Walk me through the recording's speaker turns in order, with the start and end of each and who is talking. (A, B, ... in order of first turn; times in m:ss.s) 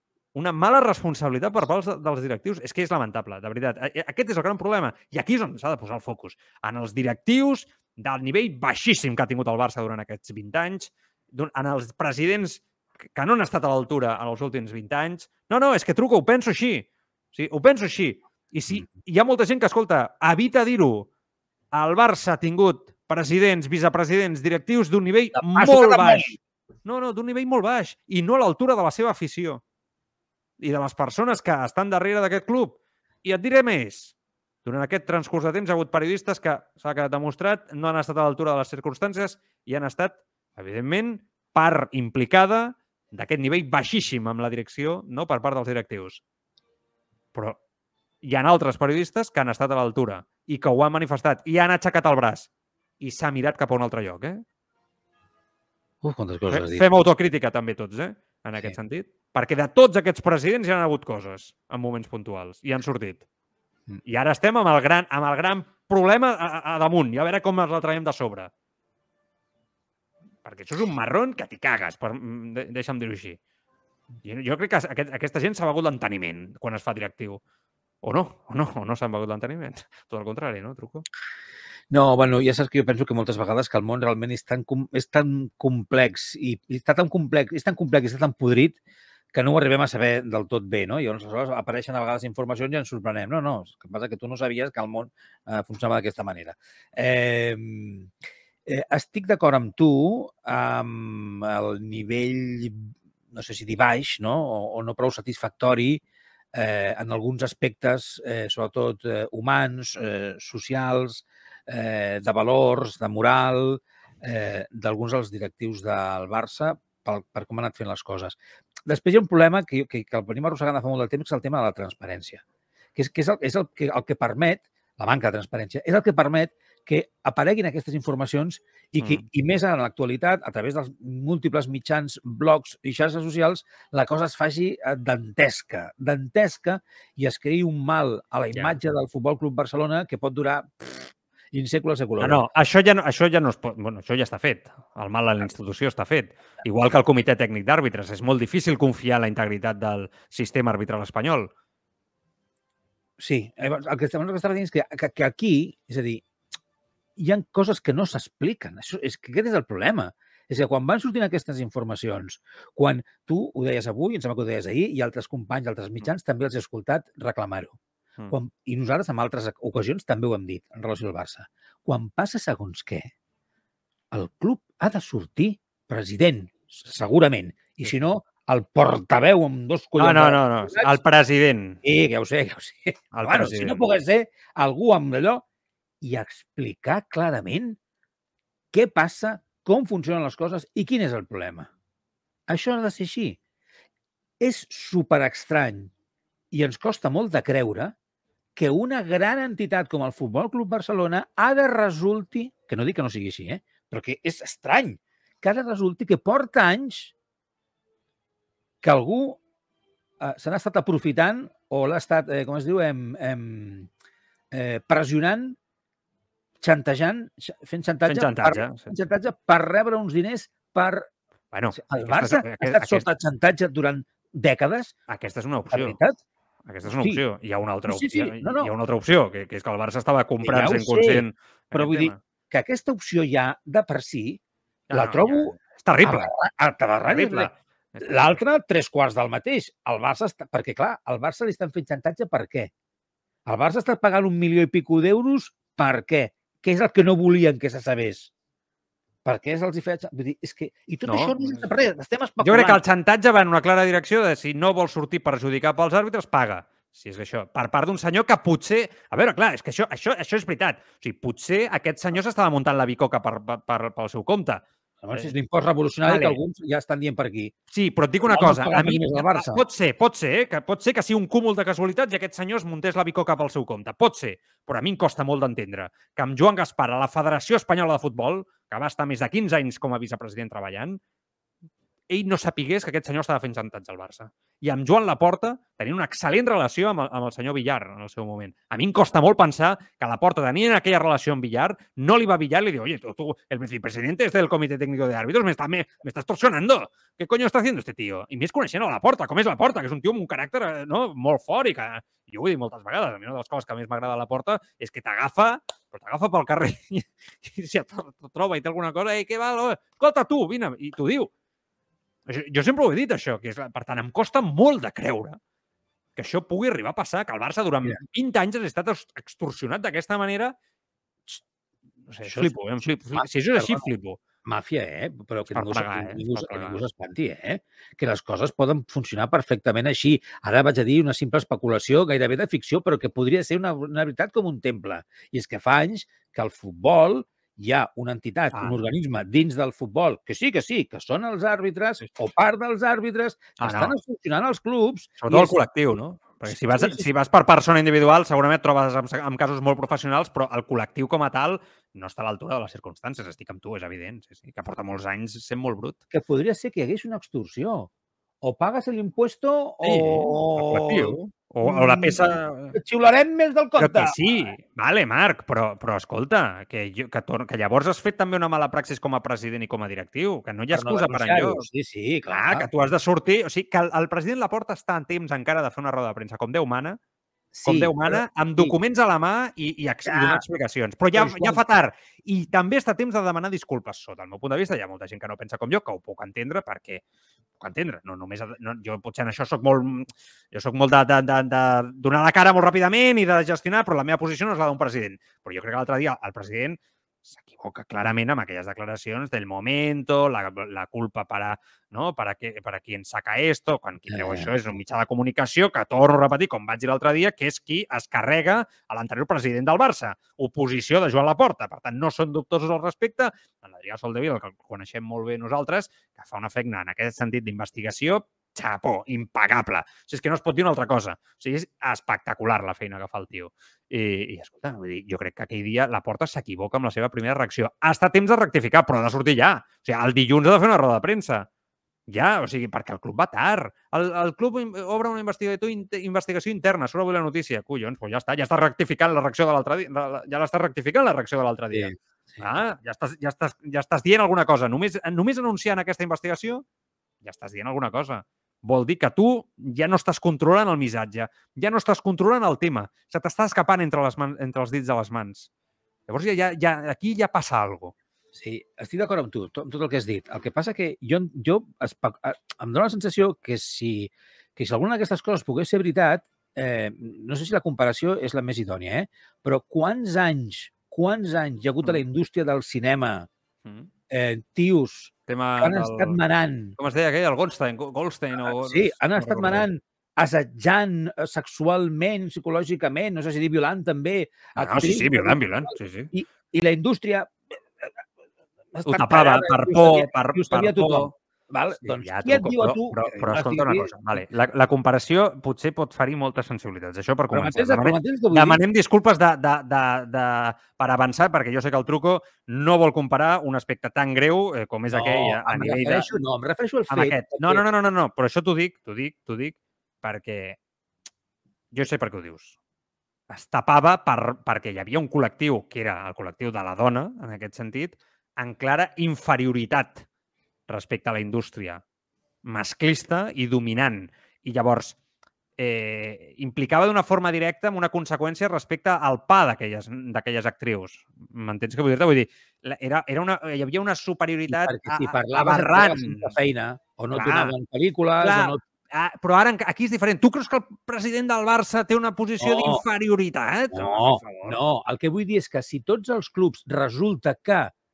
0:00.3-0:12.6 A
0:13.1-0:21.1 A
0:21.7-0:26.3 A
0:25.3-0:26.4 B
0:26.8-0:29.6 A
0:30.6-0:46.2 A
0:47.3-0:47.6 A
0:48.2-0:52.5 A
0:53.0-0:54.4 A
0:56.0-0:56.9 B
0:56.5-1:03.2 A
1:04.0-1:08.5 A
1:10.4-1:13.4 A
1:14.2-1:17.4 A
1:18.0-1:21.0 A
1:21.9-1:28.8 B
1:29.3-1:38.1 B
1:38.7-1:46.0 B
1:46.5-1:58.4 B
1:58.9-2:02.4 B
2:03.0-2:22.4 B
2:09.0-2:09.2 A
2:22.2-2:31.5 A
2:33.2-2:36.2 B
2:37.2-2:47.8 B
2:48.3-2:53.1 B
2:54.1-3:01.0 B
3:00.0-3:01.8 A
3:01.8-3:05.4 B
3:03.1-3:03.8 A
3:06.0-3:07.8 B
3:08.7-3:11.7 B
3:12.5-3:13.4 B
3:14.4-3:15.9 B
3:16.5-3:17.9 B
3:18.6-3:27.1 B
3:28.8-3:29.4 B
3:30.2-3:33.9 B
3:34.5-3:35.6 B
3:36.6-3:41.1 B
3:38.1-3:38.9 A
3:41.5-3:43.0 A
3:41.8-3:44.9 B
3:45.1-3:46.0 A
3:45.7-3:46.2 B
3:46.6-3:52.2 A
3:46.8-3:47.2 B
3:47.9-3:48.7 B
3:50.4-3:54.4 B
3:54.9-3:56.3 A
3:54.9-3:57.5 B
3:57.1-3:58.4 A
3:58.0-4:02.7 B
4:03.4-4:08.3 B
4:09.2-4:12.8 B
4:11.1-4:11.6 A
4:12.4-4:24.6 A
4:25.0-4:27.5 B
4:26.0-4:26.4 A
4:27.7-4:41.0 A
4:28.2-4:29.6 B
4:42.1-5:11.3 A
5:12.3-5:15.4 A
5:16.2-5:20.5 A
5:22.1-5:24.2 A
5:22.2-5:22.5 B
5:23.1-5:23.9 B
5:24.4-5:45.5 B
5:25.5-5:26.8 A
5:43.6-5:43.9 A
5:45.2-5:56.0 A
5:46.4-5:47.1 B
5:56.1-5:57.9 B
5:58.4-6:04.5 B
5:59.8-6:02.8 A
6:03.8-6:11.7 A
6:10.7-6:12.7 B
6:12.3-6:17.0 A
6:17.5-6:18.8 B
6:17.6-6:27.0 A
6:20.0-6:20.4 B
6:21.1-6:21.6 B
6:27.6-7:11.5 A
6:44.0-6:44.6 B
7:12.1-7:26.6 A
7:21.7-7:22.5 B
7:27.2-7:35.5 A
7:36.1-7:37.9 A
7:38.3-7:53.3 B
7:53.6-7:53.9 A
7:54.1-7:56.8 B
7:55.3-7:56.2 A
7:56.8-7:59.7 A
7:58.4-8:07.9 B
8:04.6-8:06.1 A
8:08.7-8:14.0 B
8:08.9-8:11.1 A
8:11.8-8:26.1 A
8:17.3-8:18.6 B
8:24.9-8:27.6 B
8:26.9-8:30.6 A
8:31.7-8:32.6 A
8:33.3-8:40.0 A
8:40.7-8:41.8 A
8:42.4-8:45.0 A
8:45.6-8:56.3 A
8:54.5-8:58.6 B
8:57.1-8:57.5 A
8:58.2-9:04.6 A
9:02.4-9:02.8 B
9:03.7-9:07.7 B